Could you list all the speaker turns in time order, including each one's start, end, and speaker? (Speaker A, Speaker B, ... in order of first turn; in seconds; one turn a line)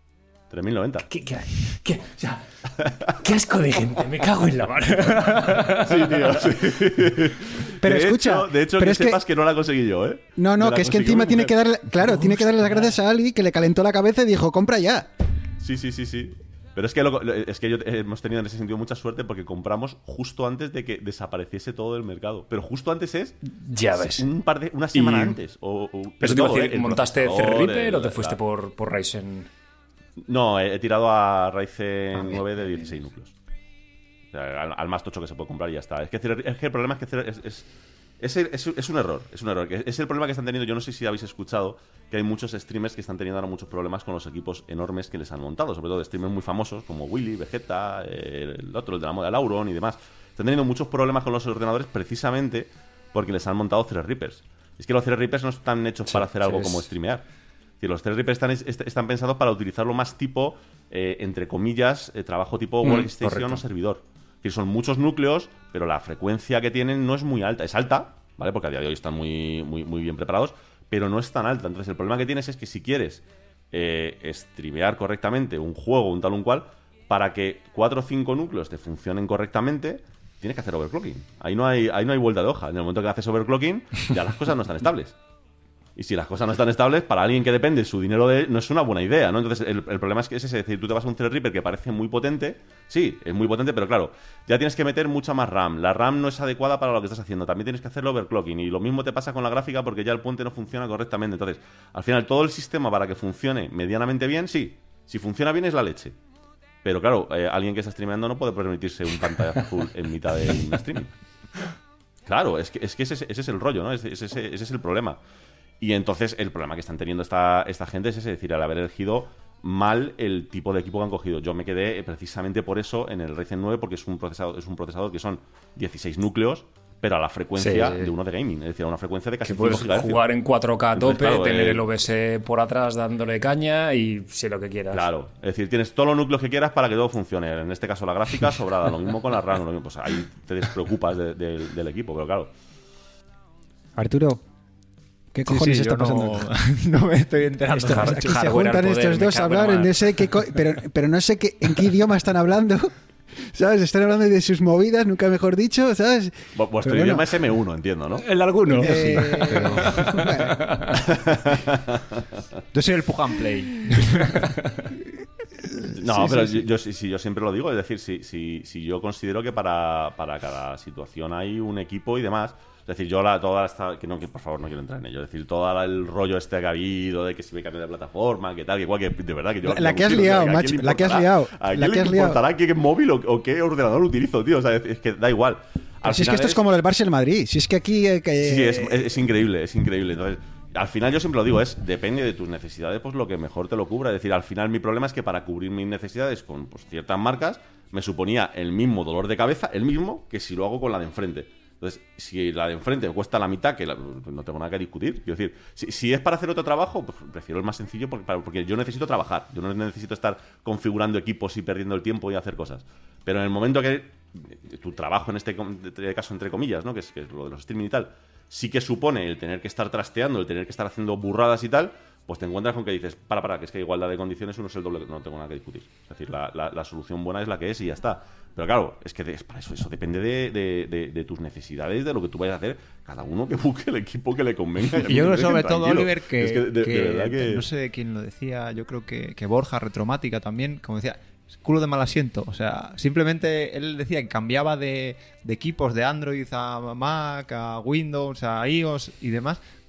Speaker A: 0.5-1.1
Speaker B: 1.0-2.4
Speaker B: 3.1-6.6
Speaker A: 5.8-11.5
Speaker C: 7.8-9.2
Speaker C: 10.3-15.1
Speaker B: 12.3-12.7
Speaker A: 15.6-28.4
Speaker B: 23.5-24.2
Speaker B: 24.9-25.4
Speaker B: 26.2-29.5
Speaker A: 30.2-33.3
Speaker A: 34.3-37.7
Speaker A: 38.2-57.2
Speaker B: 56.1-56.9
Speaker A: 57.8-85.1
Speaker B: 62.8-63.6
Speaker A: 86.0-106.2
Speaker A: 106.8-111.1
Speaker A: 112.2-115.2
Speaker A: 115.8-130.2
Speaker B: 127.6-128.1
Speaker B: 129.4-135.1
Speaker A: 130.9-132.0
Speaker A: 134.9-142.5
Speaker C: 144.0-144.4
Speaker C: 145.3-146.5
Speaker D: 145.4-148.3
Speaker C: 147.7-157.3
Speaker B: 147.8-150.3
Speaker A: 156.5-158.2
Speaker B: 158.2-161.0
Speaker C: 158.7-160.6
Speaker D: 159.2-159.8
Speaker A: 160.9-162.4
Speaker D: 162.7-164.4
Speaker B: 164.1-164.9
Speaker C: 165.8-166.6
Speaker A: 165.9-186.6
Speaker C: 179.6-182.4
Speaker C: 186.0-189.1
Speaker A: 188.4-237.6
Speaker D: 235.0-249.6